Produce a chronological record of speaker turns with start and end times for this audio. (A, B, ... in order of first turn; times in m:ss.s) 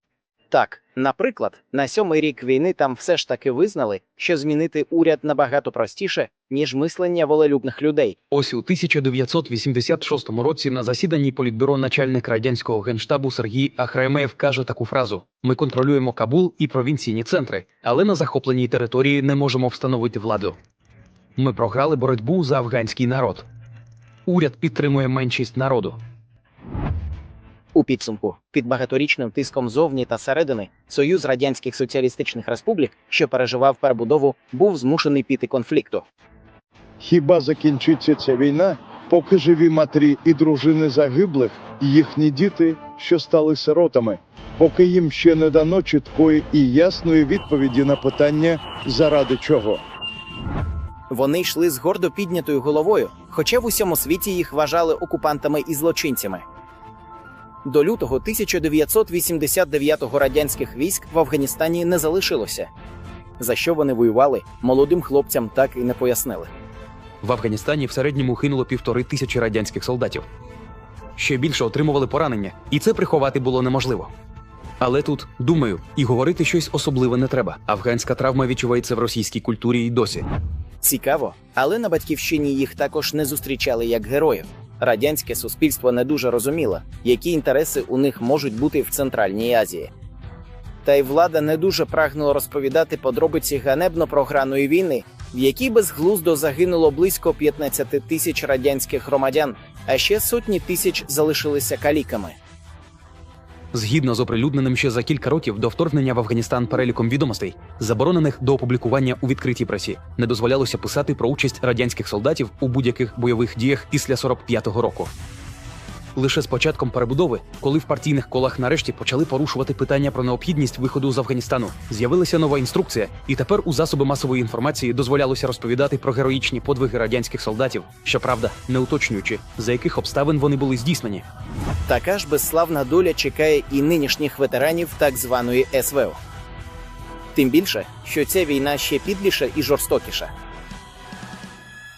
0:00.5-0:08.2 A
0:08.3-0:20.6 B
0:21.4-0:23.4 B
0:24.3-0:26.0 B
0:27.7-0:36.0 A
0:37.0-0:49.8 C
0:51.1-0:56.4 A
0:57.6-1:02.7 A
1:03.4-1:06.5 A
1:07.2-1:10.3 B
1:11.2-1:14.1 B
1:14.8-1:20.3 B
1:20.8-1:29.9 A
1:30.8-1:42.4 A
1:43.7-1:55.1 B
1:56.2-2:11.2 B
2:11.9-2:16.2 A
2:17.3-2:20.3 A